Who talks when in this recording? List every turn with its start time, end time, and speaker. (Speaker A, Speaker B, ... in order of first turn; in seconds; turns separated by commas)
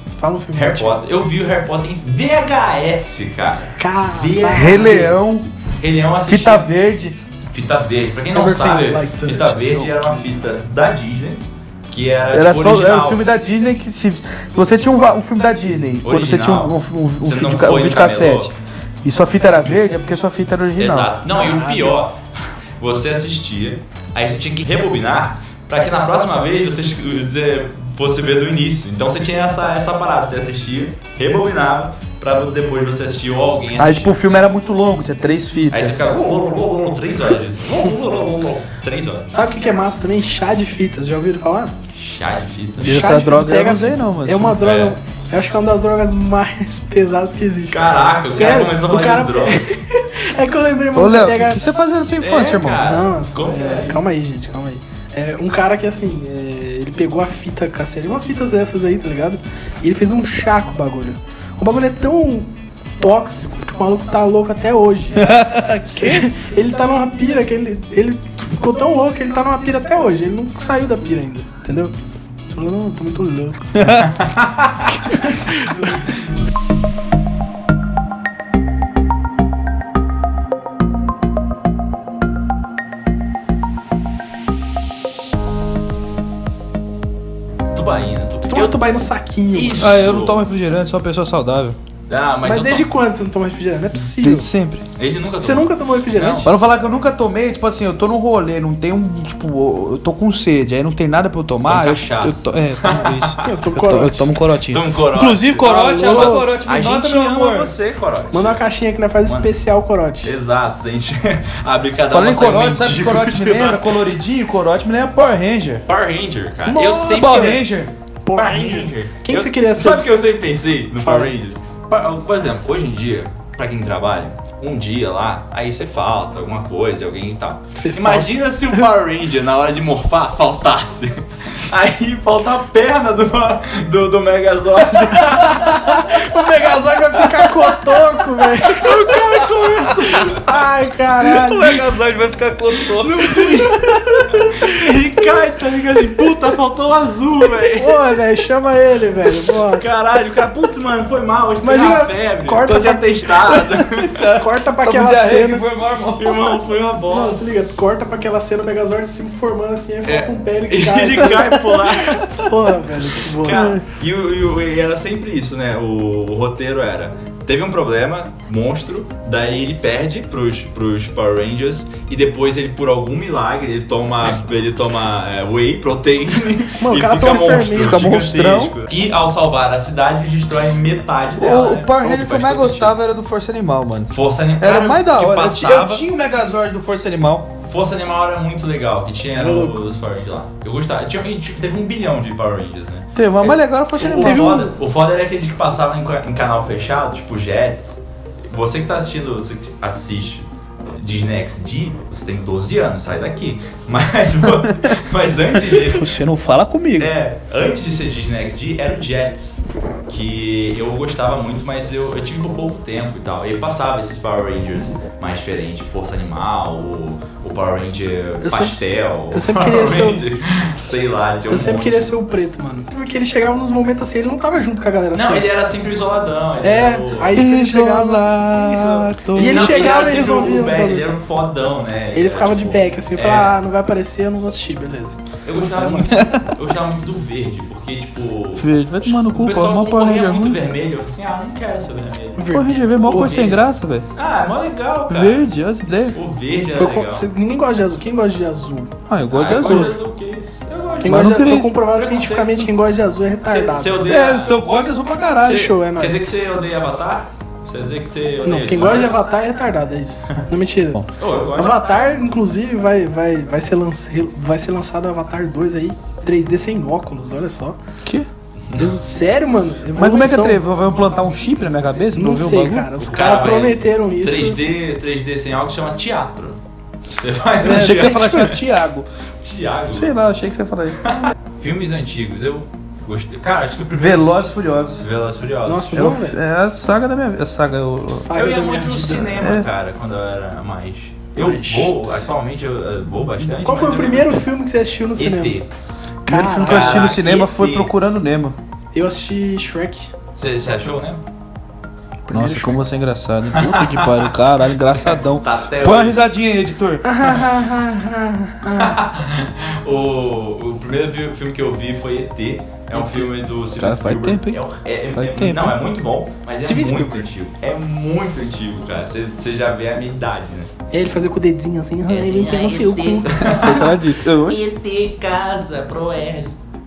Speaker A: 0.2-1.0, Speaker B: 0.5-6.7, Speaker A: 3.8-5.3, Speaker C: 4.5-5.5, Speaker C: 6.2-7.2, Speaker B: 7.5-13.2, Speaker A: 8.3-10.3, Speaker C: 12.3-18.5, Speaker B: 16.0-18.5, Speaker C: 19.0-21.1, Speaker B: 20.8-22.2, Speaker A: 21.4-21.9, Speaker B: 22.8-34.1, Speaker C: 33.8-36.0, Speaker B: 35.7-39.3, Speaker A: 39.3-41.7, Speaker B: 41.9-43.2, Speaker C: 42.8-44.6, Speaker A: 42.8-51.6, Speaker B: 44.6-45.0, Speaker B: 47.7-49.7, Speaker C: 50.9-52.9, Speaker B: 52.2-54.0, Speaker A: 52.8-71.9, Speaker C: 65.2-66.3, Speaker A: 72.5-73.8, Speaker C: 73.7-74.1, Speaker B: 74.1-74.9, Speaker A: 74.9-76.1, Speaker B: 87.7-88.9, Speaker A: 88.5-90.0, Speaker B: 89.5-90.4, Speaker C: 89.8-91.8, Speaker B: 92.1-92.9, Speaker A: 92.4-94.5, Speaker C: 94.2-94.8, Speaker B: 95.0-96.5, Speaker A: 95.4-96.5, Speaker C: 96.4-107.7, Speaker B: 101.6-103.6, Speaker A: 103.4-104.3, Speaker B: 104.6-108.6, Speaker A: 105.6-106.5, Speaker A: 108.3-110.3, Speaker B: 109.2-109.5, Speaker B: 110.2-113.9, Speaker C: 112.1-115.8, Speaker B: 115.9-117.7, Speaker A: 116.7-117.6, Speaker C: 117.1-117.9, Speaker A: 118.2-120.1, Speaker B: 118.3-136.2, Speaker A: 121.0-121.3, Speaker A: 127.7-128.8, Speaker A: 135.2-139.2, Speaker B: 138.6-140.5, Speaker A: 139.8-141.7, Speaker B: 141.2-148.1, Speaker C: 141.5-143.5, Speaker A: 144.0-144.7, Speaker A: 147.7-149.9, Speaker B: 149.5-154.2, Speaker A: 151.6-153.7, Speaker C: 154.0-156.5, Speaker A: 154.3-155.6, Speaker B: 156.2-157.4, Speaker A: 157.1-163.8, Speaker B: 160.0-162.5, Speaker B: 163.3-182.9, Speaker A: 176.8-178.1, Speaker C: 177.7-178.8, Speaker C: 181.4-187.5, Speaker B: 184.1-186.0, Speaker B: 187.7-206.2, Speaker A: 189.3-189.8, Speaker C: 193.2-194.4, Speaker A: 194.0-194.7, Speaker C: 205.7-207.1, Speaker B: 207.0-222.1, Speaker A: 218.4-220.2, Speaker A: 221.5-225.5, Speaker B: 225.1-227.4, Speaker A: 226.6-228.4, Speaker C: 227.3-230.0, Speaker B: 228.5-233.6, Speaker A: 229.3-231.2, Speaker A: 232.1-236.2, Speaker B: 235.4-242.5, Speaker C: 236.0-236.5, Speaker C: 238.6-240.6, Speaker A: 242.3-243.6, Speaker C: 242.5-244.1, Speaker B: 243.1-243.6, Speaker B: 244.1-245.5, Speaker C: 245.1-246.2, Speaker B: 246.1-247.3, Speaker A: 246.7-248.9, Speaker C: 249.1-249.9, Speaker B: 249.3-252.7, Speaker A: 249.5-249.9, Speaker C: 251.0-251.8, Speaker A: 251.0-254.1, Speaker B: 253.4-254.6, Speaker C: 254.0-255.7, Speaker A: 255.4-256.3, Speaker B: 255.4-259.3, Speaker A: 258.4-267.8, Speaker B: 261.2-261.8, Speaker A: 268.8-270.6, Speaker C: 269.9-272.9, Speaker A: 272.1-274.6, Speaker B: 272.9-276.6, Speaker B: 277.2-278.6, Speaker C: 277.6-279.1, Speaker A: 277.7-278.5, Speaker B: 279.4-280.1, Speaker C: 279.9-281.2, Speaker B: 281.0-284.3, Speaker C: 283.9-285.0, Speaker B: 285.0-286.1, Speaker A: 285.6-286.4, Speaker C: 285.9-288.3, Speaker A: 288.1-289.4, Speaker B: 288.3-294.5, Speaker C: 289.4-289.7, Speaker A: 291.4-291.9, Speaker A: 293.6-295.6, Speaker B: 295.2-295.7, Speaker A: 296.2-297.2, Speaker C: 296.3-298.6, Speaker B: 296.6-297.9, Speaker A: 298.9-300.1, Speaker B: 300.4-301.2, Speaker A: 302.3-302.8, Speaker C: 302.3-307.0, Speaker B: 303.5-304.3, Speaker B: 304.8-306.2, Speaker A: 307.0-309.0, Speaker B: 308.8-320.7, Speaker C: 312.9-314.6, Speaker C: 315.1-315.8, Speaker A: 316.5-317.3, Speaker A: 320.9-323.8, Speaker B: 322.1-326.5, Speaker C: 323.4-324.6